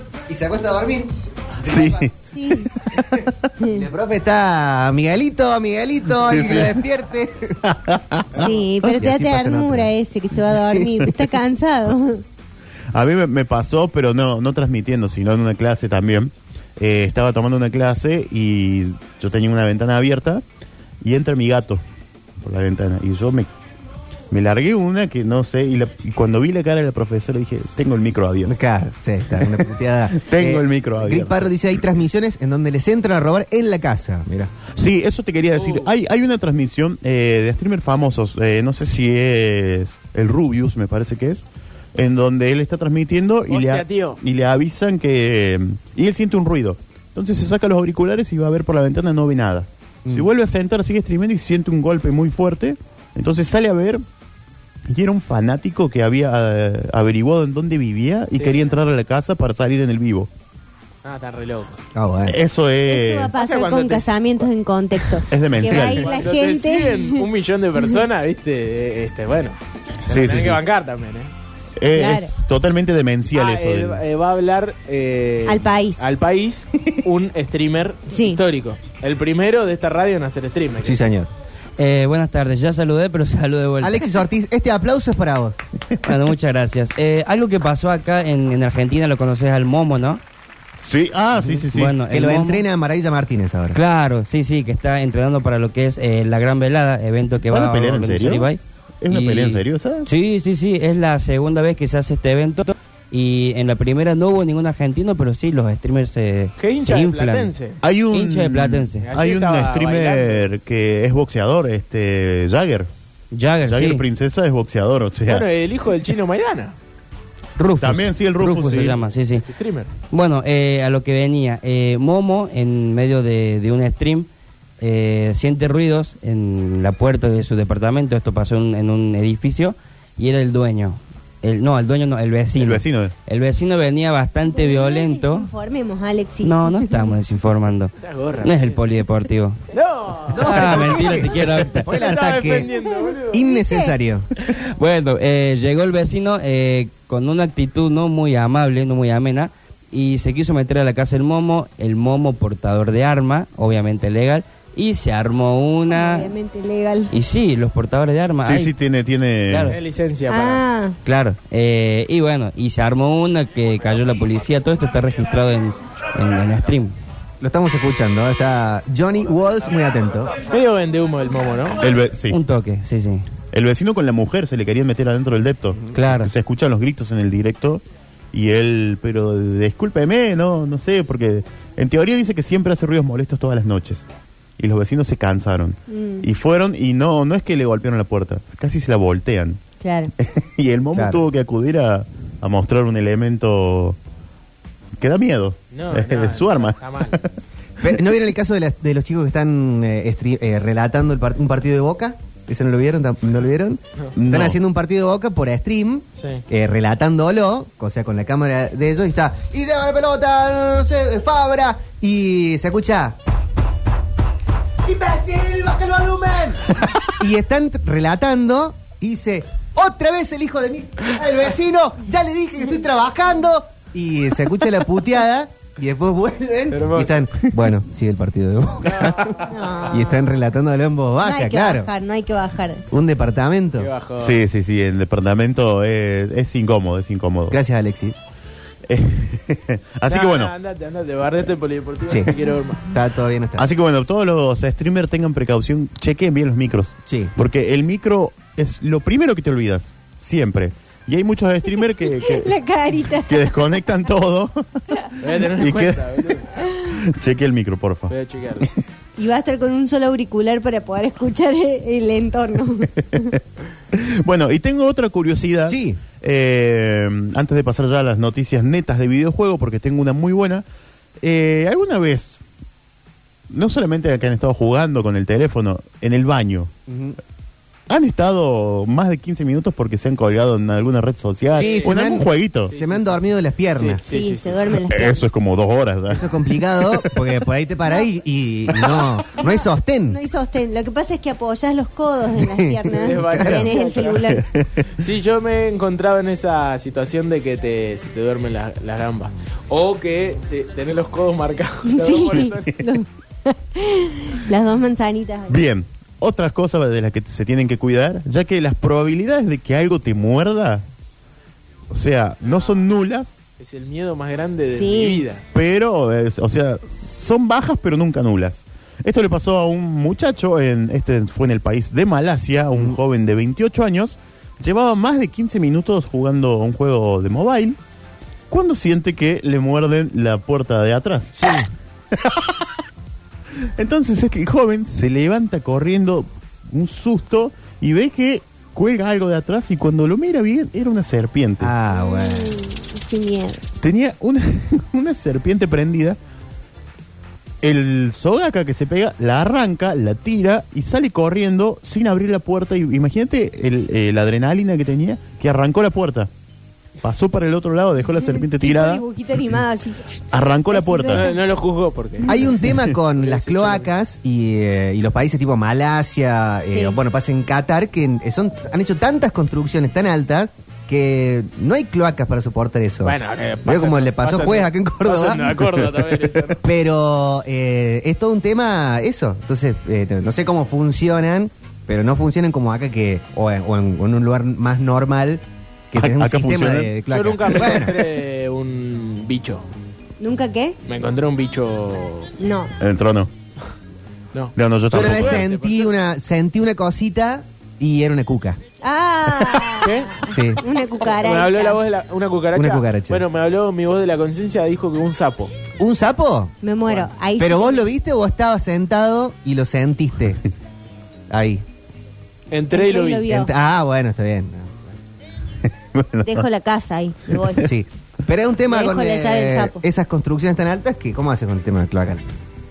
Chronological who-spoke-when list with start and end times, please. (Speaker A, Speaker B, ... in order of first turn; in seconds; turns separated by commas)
Speaker A: 0.3-2.1, Speaker B: 1.6-3.3, Speaker C: 2.3-2.7, Speaker A: 3.0-7.6, Speaker C: 3.6-3.9, Speaker B: 6.2-6.8, Speaker B: 7.6-8.5, Speaker C: 8.3-12.2, Speaker A: 8.4-9.9, Speaker A: 10.6-11.1, Speaker B: 12.9-20.4, Speaker B: 21.0-21.8, Speaker B: 22.4-23.5, Speaker B: 24.3-28.5, Speaker A: 28.4-34.5, Speaker B: 30.1-31.5, Speaker B: 34.7-41.4, Speaker D: 35.5-35.9, Speaker B: 42.0-54.0, Speaker D: 43.5-44.2, Speaker B: 54.9-60.3, Speaker D: 58.3-58.8, Speaker D: 61.0-61.8, Speaker A: 62.0-62.4, Speaker B: 62.3-63.3, Speaker C: 62.9-67.3, Speaker D: 63.4-64.2, Speaker B: 65.3-66.1, Speaker D: 65.7-69.6, Speaker D: 70.1-71.3, Speaker B: 70.1-70.6, Speaker B: 71.8-74.0, Speaker C: 71.9-72.3, Speaker D: 73.3-81.1, Speaker C: 75.5-76.0, Speaker C: 78.1-78.4, Speaker A: 80.8-81.3, Speaker E: 81.8-84.1, Speaker A: 83.8-85.6, Speaker E: 86.0-90.2, Speaker B: 90.8-92.0, Speaker A: 91.3-93.8, Speaker E: 91.7-92.7, Speaker E: 93.7-107.5, Speaker B: 97.5-98.5, Speaker B: 99.0-100.1, Speaker D: 106.6-107.8, Speaker B: 107.8-112.9, Speaker E: 108.1-109.1, Speaker D: 109.0-110.5, Speaker E: 113.3-114.1, Speaker B: 113.6-115.5, Speaker D: 115.3-116.8, Speaker E: 117.6-119.5, Speaker B: 117.8-119.0, Speaker D: 119.3-119.9, Speaker E: 120.1-124.3, Speaker E: 124.8-135.5, Speaker B: 132.6-133.1, Speaker C: 134.5-137.1, Speaker E: 136.4-137.9, Speaker D: 138.0-138.8, Speaker E: 138.4-139.6, Speaker D: 139.7-141.2, Speaker A: 140.3-142.7, Speaker E: 140.3-141.9, Speaker D: 141.9-143.5, Speaker C: 142.8-143.9, Speaker A: 143.3-144.3, Speaker E: 144.5-156.3, Speaker C: 155.9-157.1, Speaker E: 157.1-158.7, Speaker B: 158.4-159.8, Speaker E: 159.5-159.8, Speaker D: 159.7-160.6, Speaker C: 160.3-161.0, Speaker E: 161.1-166.9, Speaker A: 167.4-170.3, Speaker D: 170.5-171.8, Speaker B: 171.8-172.4, Speaker E: 172.3-173.2, Speaker B: 173.5-184.0, Speaker E: 175.9-176.3, Speaker B: 184.6-189.6, Speaker C: 185.9-186.3, Speaker C: 189.8-190.1, Speaker B: 190.2-194.0, Speaker A: 190.9-191.2, Speaker B: 195.0-197.3, Speaker D: 195.7-197.2, Speaker A: 197.8-213.2, Speaker B: 204.2-204.6, Speaker D: 206.2-206.4, Speaker A: 214.8-229.4, Speaker D: 226.7-227.3, Speaker D: 228.8-229.4, Speaker C: 229.5-230.3, Speaker A: 229.9-231.9, Speaker C: 231.2-232.8, Speaker A: 232.9-233.9, Speaker D: 233.8-234.4, Speaker B: 234.2-237.6, Speaker A: 237.5-238.2, Speaker B: 238.9-240.5, Speaker D: 240.1-242.9, Speaker A: 242.9-243.7, Speaker B: 243.6-252.5, Speaker A: 247.1-247.3, Speaker C: 252.0-253.7, Speaker B: 253.2-254.8, Speaker D: 255.2-256.5, Speaker B: 255.4-258.7, Speaker C: 256.6-256.9, Speaker D: 258.1-258.7, Speaker C: 259.2-263.4, Speaker B: 263.0-263.4, Speaker B: 263.9-270.6, Speaker A: 265.7-266.0, Speaker B: 271.2-272.4, Speaker B: 273.5-276.7, Speaker A: 276.9-277.2, Speaker B: 277.9-282.7, Speaker D: 281.5-282.1, Speaker A: 281.5-284.0, Speaker D: 282.7-284.7, Speaker C: 284.1-285.3, Speaker B: 284.9-287.2, Speaker A: 286.1-290.2, Speaker C: 289.4-294.5, Speaker A: 292.4-293.7, Speaker D: 292.9-294.3, Speaker B: 294.3-294.9, Speaker D: 295.0-302.8, Speaker C: 301.9-305.6, Speaker B: 305.5-310.9, Speaker B: 311.9-313.4, Speaker D: 312.5-312.7, Speaker D: 313.6-315.4, Speaker C: 314.7-315.2, Speaker B: 315.5-327.8, Speaker B: 328.5-331.6, Speaker A: 331.4-331.7, Speaker B: 332.1-332.8, Speaker B: 333.8-341.7, Speaker A: 341.6-342.6, Speaker C: 341.9-343.7, Speaker B: 343.8-346.2, Speaker B: 347.6-356.3, Speaker B: 357.0-359.0, Speaker C: 358.1-361.4, Speaker B: 360.3-361.3, Speaker D: 361.1-362.4, Speaker A: 362.3-375.6, Speaker D: 363.1-363.9, Speaker C: 366.7-367.0, Speaker D: 373.0-376.6, Speaker A: 376.6-388.1, Speaker B: 386.0-386.9, Speaker D: 387.1-389.7, Speaker C: 390.2-390.8, Speaker D: 390.9-392.3, Speaker C: 392.4-392.7, Speaker B: 392.8-393.3, Speaker D: 394.3-395.9, Speaker B: 394.6-395.5, Speaker A: 394.9-398.6, Speaker C: 398.8-401.8, Speaker D: 399.8-400.2, Speaker A: 400.3-400.6, Speaker D: 401.0-405.5, Speaker A: 402.5-403.2, Speaker A: 405.8-406.6, Speaker C: 406.6-407.9, Speaker A: 407.4-410.4, Speaker A: 411.3-411.6, Speaker D: 412.5-413.3, Speaker C: 412.7-413.5, Speaker A: 413.3-415.0, Speaker B: 415.6-416.5, Speaker C: 416.2-417.7, Speaker A: 417.6-422.2, Speaker C: 418.7-419.8